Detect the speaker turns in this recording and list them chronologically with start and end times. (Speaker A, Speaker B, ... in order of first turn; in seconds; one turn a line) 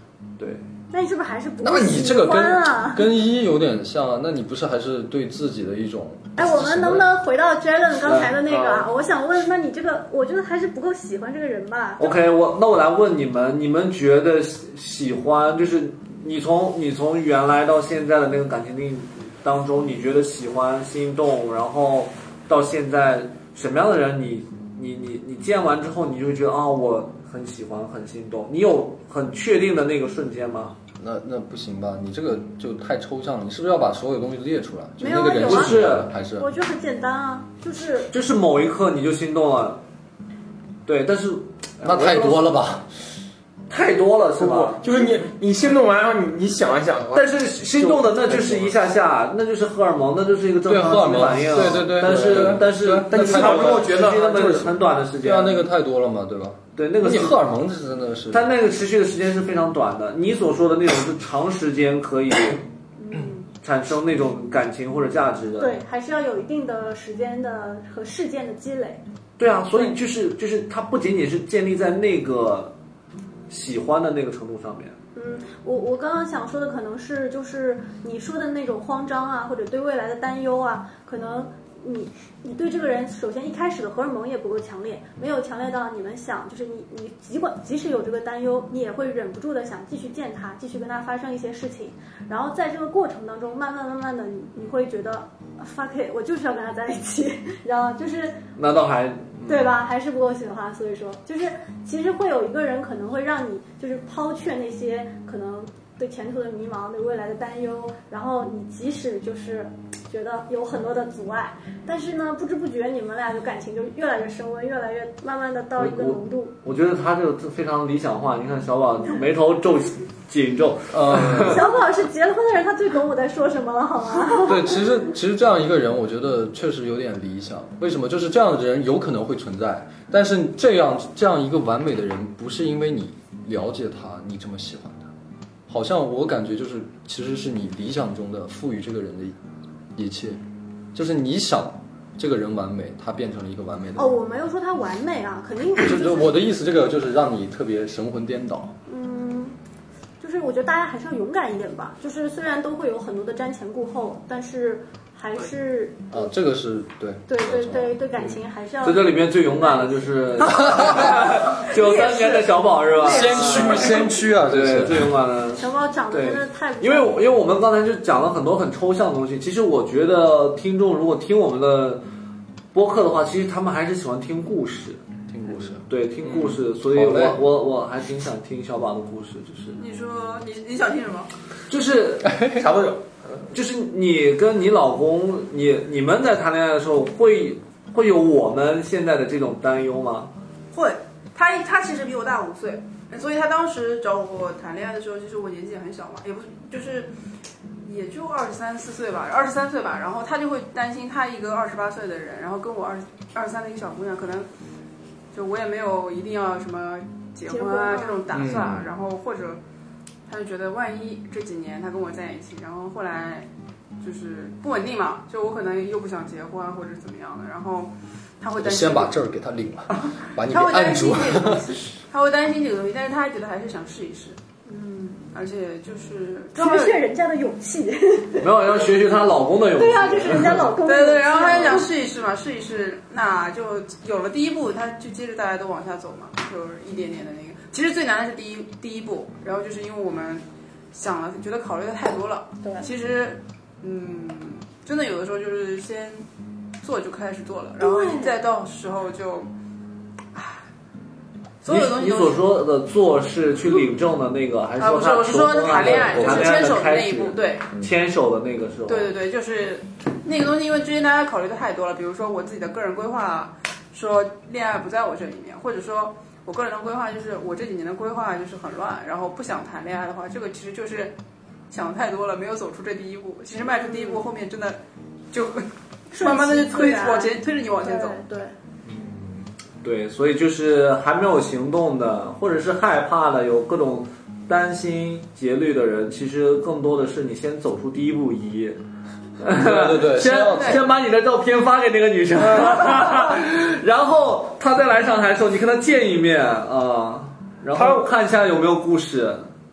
Speaker A: 0.4-0.6
Speaker B: 0.9-3.1
Speaker C: 1.6-7.1
Speaker B: 6.4-12.1
Speaker A: 8.0-8.9
Speaker A: 12.0-30.8
Speaker C: 31.0-36.5
Speaker B: 35.0-38.1
Speaker A: 35.4-36.1
Speaker A: 38.1-39.8
Speaker A: 40.9-42.5
Speaker C: 41.8-42.9
Speaker A: 43.7-45.0
Speaker D: 44.4-48.7
Speaker A: 47.1-55.7
Speaker C: 50.7-58.5
Speaker D: 52.0-54.7
Speaker A: 56.8-57.5
Speaker A: 58.3-62.6
Speaker B: 63.0-63.5
Speaker A: 63.6-65.8
Speaker B: 65.6-69.0
Speaker A: 69.4-72.7
Speaker A: 73.5-75.0
Speaker B: 75.1-98.4
Speaker A: 98.5-99.8
Speaker B: 99.5-116.5
Speaker A: 115.8-121.7
Speaker C: 120.9-121.6
Speaker B: 121.2-124.8
Speaker C: 124.4-135.1
Speaker C: 135.7-139.4
Speaker C: 139.9-140.4
Speaker C: 140.9-144.2
Speaker B: 143.9-146.4
Speaker C: 145.8-148.7
Speaker B: 148.9-149.5
Speaker B: 150.2-156.3
Speaker C: 156.1-158.0
Speaker B: 157.3-160.1
Speaker A: 158.8-172.0
Speaker C: 160.5-161.2
Speaker E: 161.0-164.1
Speaker C: 163.1-165.2
Speaker B: 165.6-167.2
Speaker A: 172.7-175.0
Speaker C: 175.3-177.4
Speaker A: 175.8-179.8
Speaker E: 179.8-181.3
Speaker A: 181.7-182.3
Speaker C: 182.2-182.6
Speaker D: 182.5-183.4
Speaker A: 183.5-190.3
Speaker E: 190.7-197.1
Speaker E: 197.8-204.5
Speaker E: 205.3-209.6
Speaker B: 207.5-208.2
Speaker C: 208.3-208.9
Speaker E: 210.3-213.5
Speaker E: 214.0-219.1
Speaker C: 218.6-221.7
Speaker E: 220.0-224.4
Speaker B: 224.7-225.2
Speaker E: 225.2-227.0
Speaker B: 226.5-228.5
Speaker A: 228.4-230.7
Speaker B: 229.8-231.9
Speaker E: 230.8-246.2
Speaker B: 242.6-242.9
Speaker E: 246.8-249.5
Speaker B: 247.8-248.3
Speaker E: 251.6-252.4
Speaker A: 251.7-259.1
Speaker E: 254.8-257.7
Speaker C: 256.1-256.4
Speaker E: 258.9-271.1
Speaker E: 271.7-274.8
Speaker B: 273.6-274.3
Speaker E: 275.3-278.2
Speaker B: 276.1-278.5
Speaker A: 278.8-288.8
Speaker A: 289.4-299.5
Speaker C: 289.5-290.9
Speaker D: 297.7-298.1